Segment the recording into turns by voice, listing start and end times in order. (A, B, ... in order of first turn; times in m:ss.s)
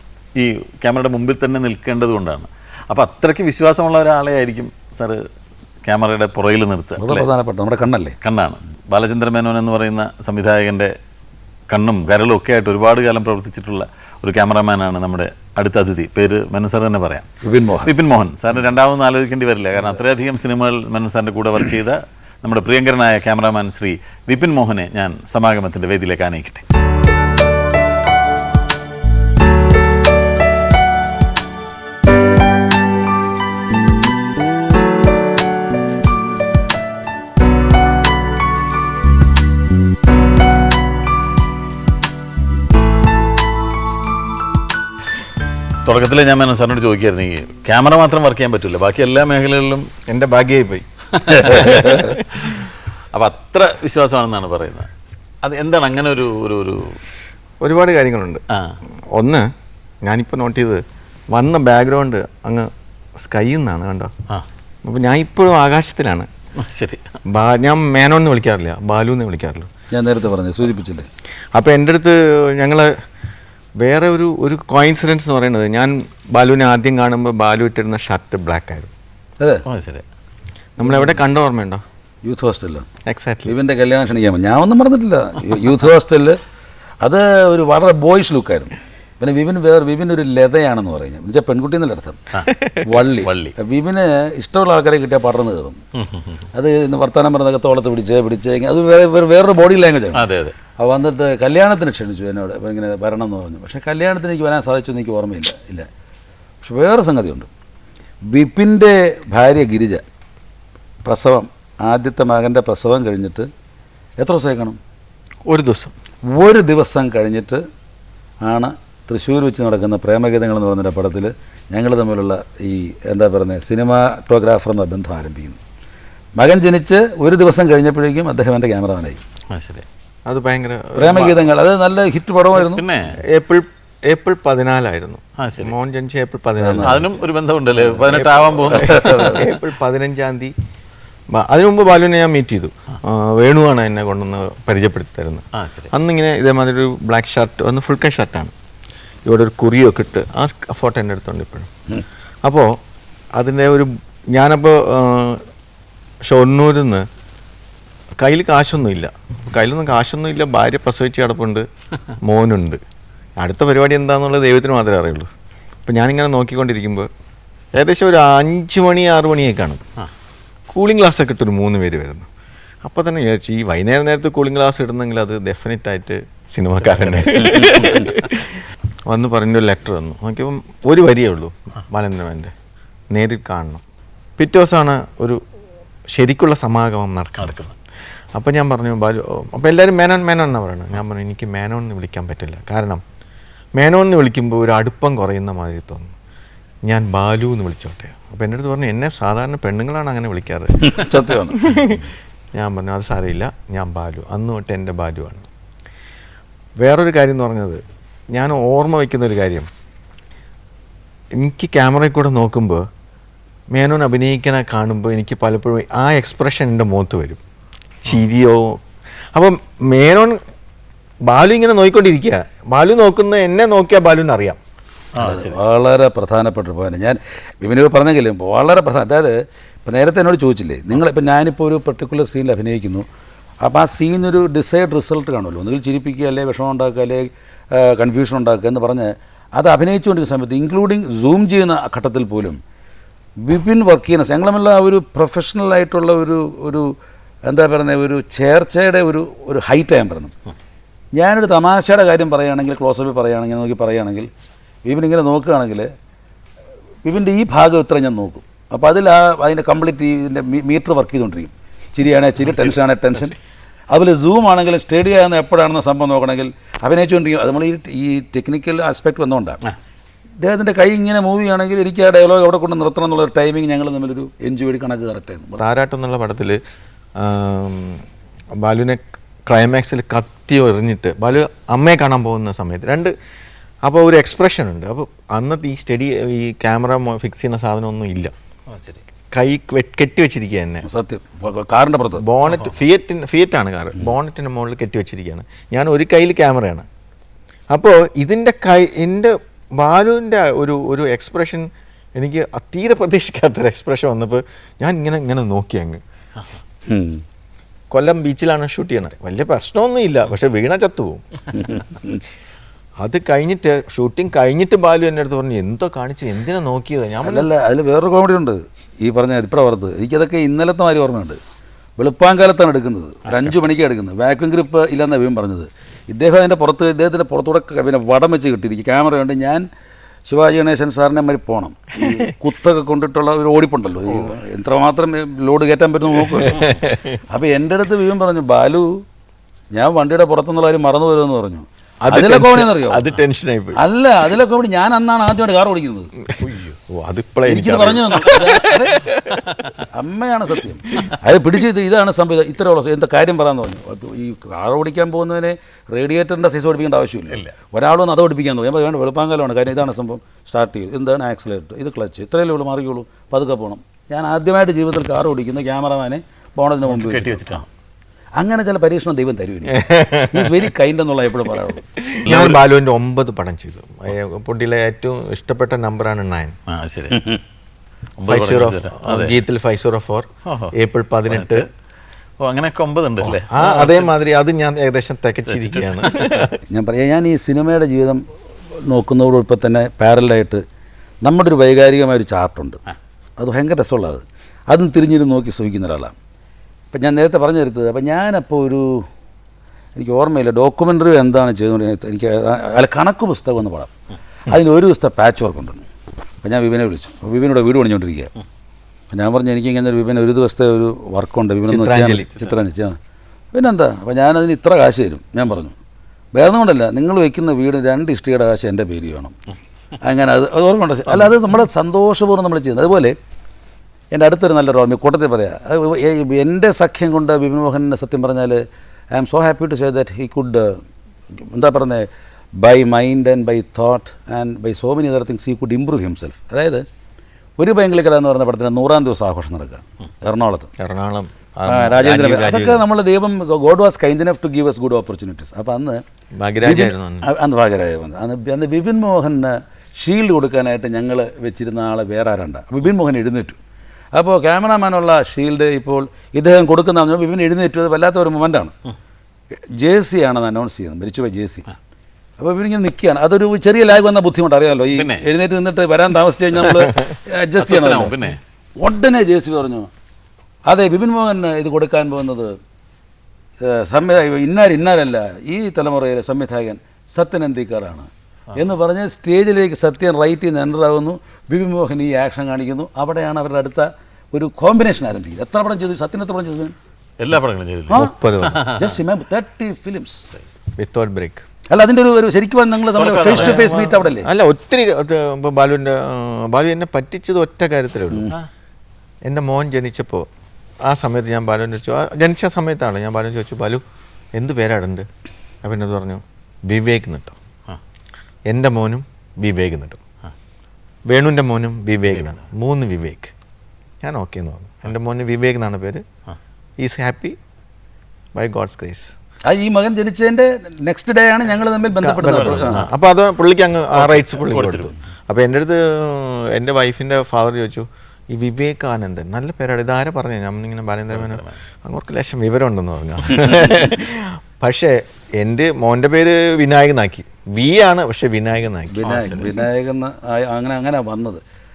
0:00.4-0:05.2 A
0:05.8-0:07.3 A
0:07.0-0:08.2 B
0:08.2-0:10.9 A
0:11.7-0:17.3 A
0:17.4-0:17.9 B
0:17.8-0:26.6 A
0:45.8-0:49.9 A
0:50.1-0:50.8 C
0:51.1-0:54.9 A
0:51.4-0:51.9 C
0:55.4-0:57.0 A
0:57.6-0:58.4 C
0:59.1-0:59.5 C
1:00.0-1:04.1 C
1:04.8-1:06.3 C
1:06.6-1:07.0 A
1:07.3-1:09.7 C
1:09.9-1:11.1 B
1:11.5-1:12.9 C
1:13.8-1:18.9 C
1:19.6-1:20.0 A
1:20.8-1:21.8 C
1:20.8-1:21.2 B
1:22.2-1:22.8 B
1:23.0-1:23.5 C
1:23.5-1:26.4 B
1:27.0-1:32.2 B
1:32.5-1:32.8 C
1:32.8-1:35.8 B
1:33.2-1:33.5 A
1:36.0-1:36.4 A
1:36.5-1:45.9 B
1:40.1-1:40.5 A
1:46.6-1:47.5 B
1:48.3-1:50.0 B
1:51.0-1:53.5 B
1:54.2-1:54.8 B
1:55.5-1:55.9 C
1:56.3-1:57.6 B
1:58.4-2:05.6 B
2:06.4-2:09.2 B
2:09.5-2:09.8 A
2:10.2-2:11.5 C
2:11.0-2:12.8 B
2:12.6-2:13.2 A
2:13.3-2:17.0 C
2:15.4-2:15.7 A
2:16.6-2:17.1 B
2:16.8-2:19.5 A
2:17.9-2:19.4 B
2:18.2-2:20.5 C
2:21.3-2:28.5 C
2:25.6-2:25.9 A
2:29.3-2:31.7 C
2:32.4-2:32.7 C
2:33.3-2:35.4 C
2:36.3-2:37.0 C
2:38.2-2:41.6 C
2:42.2-2:42.8 C
2:43.4-2:45.3 C
2:45.8-2:47.1 C
2:47.8-2:49.8 C
2:50.7-2:52.3 C
2:52.8-3:02.5 C
2:56.8-2:57.7 A
3:03.1-3:03.8 C
3:04.4-3:05.4 C
3:06.1-3:07.7 C
3:07.4-3:07.7 A
3:08.3-3:13.0 C
3:13.8-3:16.1 C
3:16.9-3:22.0 C
3:20.8-3:21.8 B
3:22.5-3:25.4 C
3:26.8-3:29.7 C
3:31.4-3:32.8 C
3:33.7-3:37.4 C
3:38.0-3:38.8 C
3:39.3-3:40.4 C
3:41.3-3:44.6 C
3:45.2-3:53.0 B
3:45.2-3:45.6 A
3:53.6-4:02.6 B
4:03.4-4:06.9 B
4:07.4-4:10.3 B
4:11.1-4:14.3 B
4:14.8-4:15.9 B
4:17.0-4:23.4 B
4:23.9-4:29.6 B
4:30.4-4:35.6 B
4:35.6-4:36.6 C
4:37.2-4:38.0 C
4:38.6-4:43.1 C
4:43.8-4:48.3 C
4:48.7-4:49.0 A
4:49.3-4:50.8 C
4:50.8-4:52.2 B
4:52.2-4:56.8 C
4:57.7-5:06.0 C
5:06.9-5:07.2 B
5:07.9-5:11.2 C
5:11.5-5:12.2 B
5:13.0-5:17.5 C
5:17.2-5:21.4 B
5:22.0-5:29.6 B
5:30.3-5:39.0 B
5:36.5-5:37.2 C
5:39.7-5:43.0 B
5:42.0-5:43.8 C
5:43.8-5:46.1 B
5:46.4-5:46.7 A
5:46.9-5:49.4 C
5:47.5-5:49.1 B
5:49.9-6:07.6 B
6:06.9-6:07.7 A
6:08.4-6:11.8 B
6:09.6-6:10.5 C
6:12.0-6:16.5 C
6:12.2-6:12.6 A
6:16.7-6:17.2 A
6:17.1-6:17.4 B
6:18.2-6:19.4 A
6:18.2-6:21.7 C
6:20.5-6:20.7 A
6:21.3-6:21.6 A
6:22.4-6:24.1 A
6:23.2-6:26.6 C
6:25.6-6:26.4 A
6:26.7-6:28.2 B
6:28.8-6:30.6 B
6:31.2-6:32.8 B
6:33.4-6:36.1 B
6:36.9-6:39.1 B
6:40.0-6:43.9 B
6:44.5-6:45.8 B
6:46.4-6:48.3 B
6:49.1-6:53.0 B
6:51.7-6:52.3 C
6:53.5-6:55.7 B
6:56.3-6:59.3 B
7:00.0-7:03.1 B
7:04.1-7:08.6 B
7:09.1-7:10.8 B
7:11.4-7:12.0 B
7:12.6-7:16.8 B
7:17.6-7:20.7 B
7:20.8-7:22.8 C
7:21.7-7:26.0 B
7:26.3-7:27.3 C
7:26.6-7:33.6 B
7:34.1-7:38.7 B
7:39.7-7:41.7 B
7:42.4-7:48.2 B
7:44.9-7:45.2 A
7:47.6-7:48.4 A
7:48.8-7:49.9 B
7:50.6-7:52.6 B
7:53.6-8:06.7 B
8:07.2-8:08.9 A
8:07.9-8:08.7 C
8:08.7-8:10.2 B
8:10.8-8:11.4 C
8:11.7-8:14.3 B
8:12.9-8:13.7 A
8:13.3-8:18.3 C
8:19.2-8:20.3 C
8:20.8-8:23.8 C
8:24.3-8:25.0 C
8:25.6-8:27.4 C
8:28.5-8:30.0 C
8:31.1-8:33.3 C
8:34.0-8:36.0 C
8:36.8-8:37.4 C
8:38.3-8:39.1 C
8:39.5-8:42.9 B
8:42.0-8:59.4 C
8:42.3-8:42.8 A
8:43.9-8:44.9 A
8:51.1-8:51.6 A
8:58.9-9:01.4 B
8:59.0-8:59.6 A